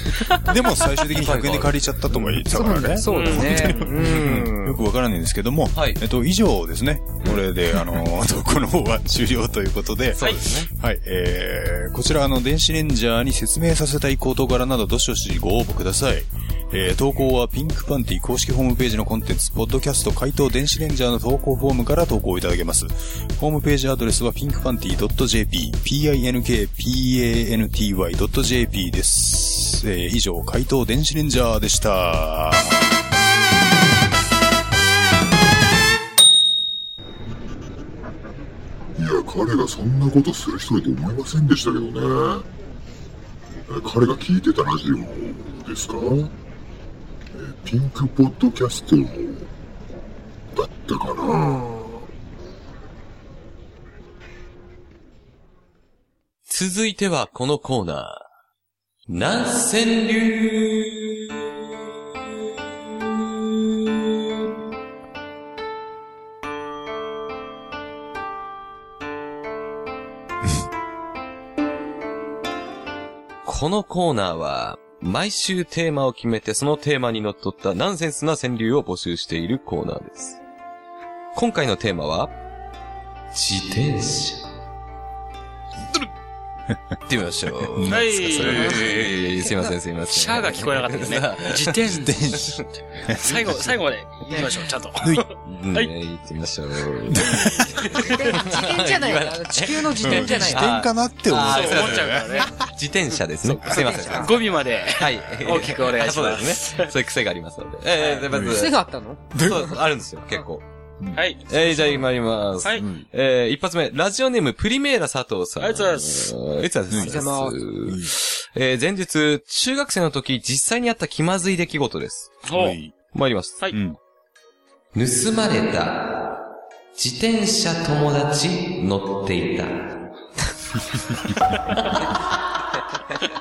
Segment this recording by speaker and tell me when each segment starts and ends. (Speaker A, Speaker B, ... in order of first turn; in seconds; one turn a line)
Speaker A: 0.4-33.0
Speaker B: 1.0-2.4
Speaker C: 2.5-4.8
Speaker D: 3.0-4.0
Speaker B: 4.0-4.4
Speaker B: 5.7-6.0
Speaker B: 10.1-10.7
Speaker E: 39.0-42.5
Speaker E: 43.6-46.3
Speaker E: 47.3-49.5
Speaker E: 50.5-51.6
Speaker C: 51.2-51.8
Speaker B: 56.5-58.2
Speaker B: 59.1-61.1
Speaker B: 73.4-80.4
Speaker B: 81.3-82.3
Speaker B: 83.3-84.4
Speaker B: 87.1-91.8
Speaker A: 87.7-89.1
Speaker D: 87.8-89.2
Speaker D: 90.1-92.2
Speaker A: 91.9-93.8
Speaker B: 92.4-92.6
Speaker D: 93.2-95.9
Speaker A: 95.0-95.2
Speaker B: 95.5-108.8
Speaker A: 97.1-97.9
Speaker C: 97.7-100.7
Speaker A: 100.0-102.5
Speaker D: 101.5-102.5
Speaker A: 103.4-103.7
Speaker D: 103.5-106.9
Speaker C: 103.7-104.3
Speaker D: 108.0-108.2
Speaker A: 108.3-108.7
Speaker C: 108.3-109.6
Speaker A: 109.3-109.8
Speaker B: 109.3-110.6
Speaker A: 111.0-112.0
Speaker D: 111.2-111.9
Speaker B: 111.5-122.5
Speaker A: 112.8-113.0
Speaker D: 115.6-116.3
Speaker A: 116.9-117.3
Speaker C: 117.0-117.6
Speaker A: 117.8-118.1
Speaker D: 122.5-122.8
Speaker A: 122.5-122.9
Speaker B: 123.1-123.6
Speaker A: 123.7-124.0
Speaker B: 124.9-126.4
Speaker B: 127.0-129.9